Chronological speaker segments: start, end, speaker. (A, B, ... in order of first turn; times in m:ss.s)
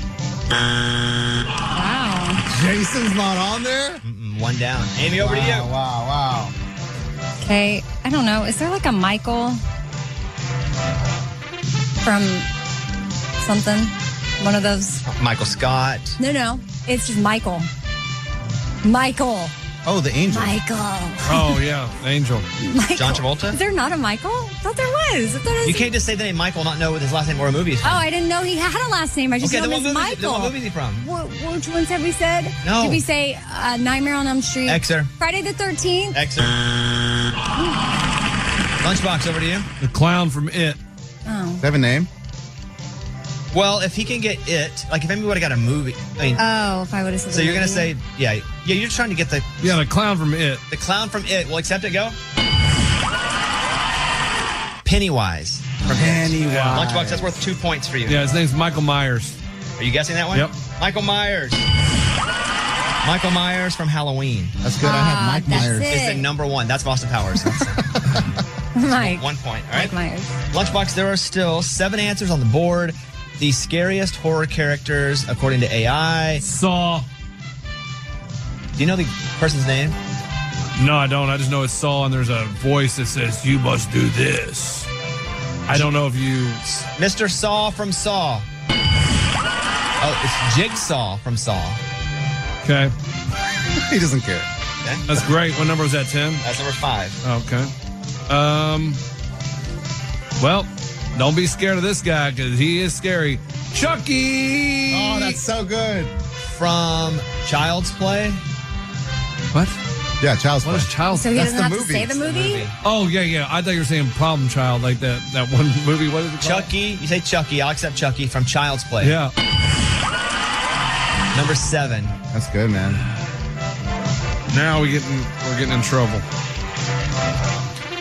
0:01.7-0:02.4 A
0:02.5-0:04.0 B
0:04.0-0:05.7 C
0:05.2-0:06.5 B
0:07.4-0:09.6 A
0:12.0-0:12.5 A
0:13.4-0:15.0 A
0:15.0-0:16.2 C
0:16.2-0:17.7 A
0:18.8-0:19.5 A
0:19.8-0:20.6 B
0:20.3-0:21.6 A
0:21.3-0:22.5 D
0:22.6-0:25.9 A
0:23.0-0:23.6 C
0:25.6-0:28.0 C
0:27.8-0:36.2 A
0:29.4-0:31.1 C
0:32.6-0:33.0 C
0:34.7-0:35.1 C
0:36.1-0:36.6 C
0:38.8-0:39.7 C
0:39.8-0:40.8 D
0:41.3-0:41.6 A
0:41.6-0:42.1 B
0:43.5-0:46.4 C
0:46.4-0:47.9 A
0:47.3-0:49.8 C
0:49.6-0:50.6 D
0:50.7-0:52.2 C
0:54.8-0:58.3 C
0:55.9-0:57.4 B
0:56.4-0:56.9 D
0:58.1-0:59.4 D
0:59.8-1:01.7 C
1:03.0-1:04.6 C
1:04.6-1:06.0 B
1:04.8-1:06.3 A
1:05.5-1:07.9 C
1:08.8-1:10.4 A
1:08.9-1:09.9 C
1:10.5-1:16.4 C
1:16.4-1:17.1 D
1:18.8-1:20.0 C
1:20.8-1:24.9 D
1:25.7-1:26.6 D
1:26.7-1:28.5 C
1:30.0-1:31.8 C
1:32.6-1:32.9 D
1:33.8-1:34.5 B
1:35.1-1:36.4 D
1:36.4-1:37.2 C
1:37.2-1:37.7 D
1:38.3-1:39.0 D
1:40.4-1:45.4 D
1:44.9-1:46.1 B
1:46.4-1:48.4 C
1:50.2-1:52.2 B
1:50.6-1:51.4 D
1:51.1-1:52.7 A
1:52.1-1:52.8 C
1:52.8-1:56.7 D
1:56.4-1:59.2 C
1:59.0-1:59.3 D
2:01.3-2:02.2 C
2:02.3-2:03.0 B
2:04.5-2:06.2 D